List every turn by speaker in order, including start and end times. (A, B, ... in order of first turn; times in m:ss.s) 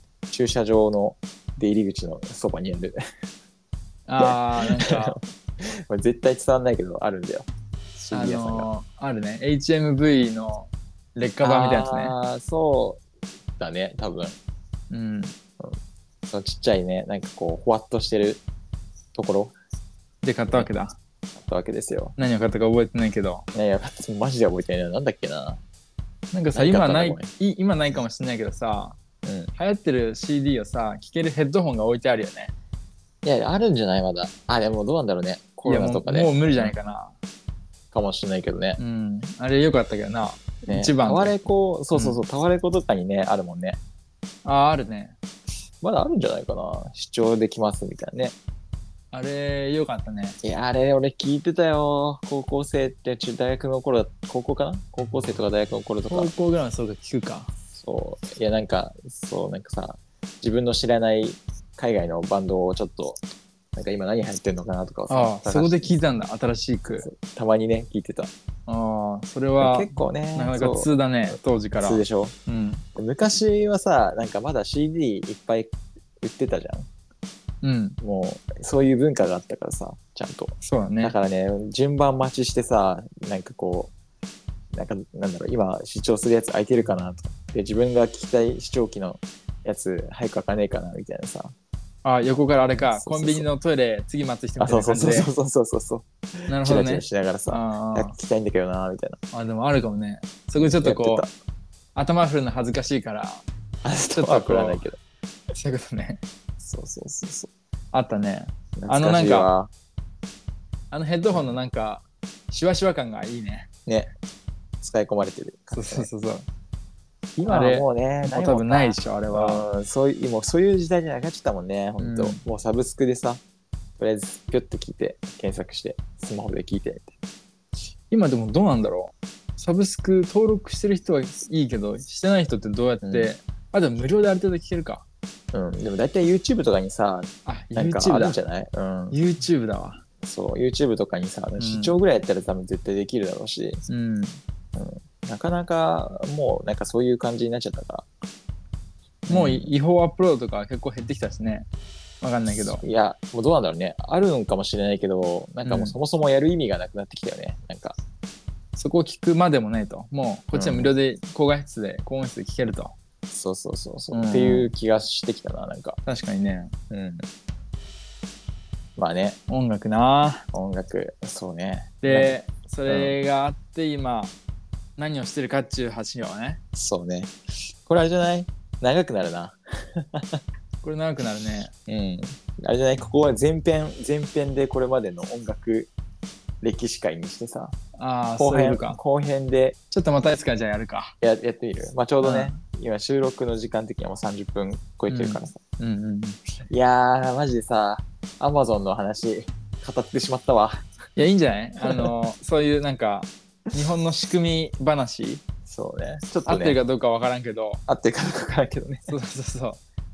0:00.3-0:03.0 A
0:04.1-0:05.2 B
0:04.2-0:08.7 A
0:08.1-0:12.1 B
0:11.4-0:13.0 A
0:13.6-0:14.4 A
0:14.9-0:15.3 B
0:15.6-0:18.4 A
0:19.1-0:19.6 A
0:20.2-0:20.9 B
0:21.3-0:22.2 A
0:22.2-0:23.4 B
0:23.5-0:25.6 A
0:26.3-0:29.0 B
0:26.5-0:27.3 A
0:29.2-0:29.5 A
0:29.6-0:32.5 B
0:33.2-0:36.7 A
0:35.6-0:37.2 B
0:37.9-0:38.8 A
0:38.8-0:41.4 B
0:40.6-0:43.8 A
0:41.9-0:42.2 B
0:44.4-0:45.2 B
0:45.8-0:48.4 A
0:49.1-0:50.4 B
0:50.4-0:56.3 A
0:56.1-0:57.5 B
0:57.7-1:03.2 A
1:03.7-1:05.9 A
1:05.1-1:07.1 B
1:07.0-1:08.3 A
1:08.7-1:12.8 B
1:09.6-1:12.4 A
1:12.9-1:16.9 A
1:17.6-1:18.0 B
1:18.0-1:23.9 A
1:20.6-1:21.1 B
1:24.7-1:31.5 A
1:32.0-1:35.3 B
1:32.8-1:33.5 A
1:34.6-1:39.2 A
1:36.5-1:38.1 B
1:39.3-1:41.2 B
1:40.6-1:41.3 A
1:41.9-1:43.4 B
1:43.8-1:45.0 A
1:44.2-1:44.8 B
1:45.5-1:46.2 B
1:46.6-1:47.5 A
1:47.9-1:49.5 B
1:48.8-1:49.7 A
1:50.9-1:53.7 B
1:51.3-1:51.6 A
1:53.8-1:54.1 A
1:54.8-1:56.1 A
1:55.7-1:56.4 B
1:57.4-2:03.4 A
1:57.4-1:59.6 B
2:02.0-2:02.4 B
2:04.0-2:07.2 A
2:08.1-2:15.0 B
2:13.0-2:13.3 A
2:15.5-2:19.2 A
2:17.4-2:18.4 B
2:19.1-2:20.0 B
2:20.2-2:23.8 A
2:21.6-2:22.0 B
2:23.9-2:24.4 B
2:24.7-2:28.1 A
2:29.3-2:29.7 A
2:29.3-2:31.7 B
2:32.2-2:32.8 B
2:32.8-2:38.0 A
2:35.6-2:35.9 B
2:38.8-2:42.9 B
2:40.5-2:40.9 A
2:43.3-2:46.0 A
2:44.1-2:44.7 B
2:46.0-2:46.7 B
2:46.9-2:47.2 A
2:49.0-2:49.4 A
2:49.5-2:50.5 B
2:50.5-2:52.3 A
2:52.0-2:54.3 B
2:52.9-2:53.1 A
2:55.0-2:56.6 B
2:56.7-2:57.3 A
2:57.8-3:00.4 A
3:00.8-3:01.7 B
3:01.9-3:05.9 A
3:06.6-3:07.8 A
3:08.0-3:09.0 B
3:08.4-3:09.8 A
3:09.9-3:11.2 B
3:11.2-3:15.6 A
3:12.2-3:12.6 B
3:15.1-3:16.4 B
3:16.7-3:20.9 A
3:21.2-3:25.4 B
3:21.8-3:22.1 A
3:25.6-3:26.8 A
3:26.4-3:27.8 B
3:27.9-3:29.1 A
3:29.1-3:29.8 B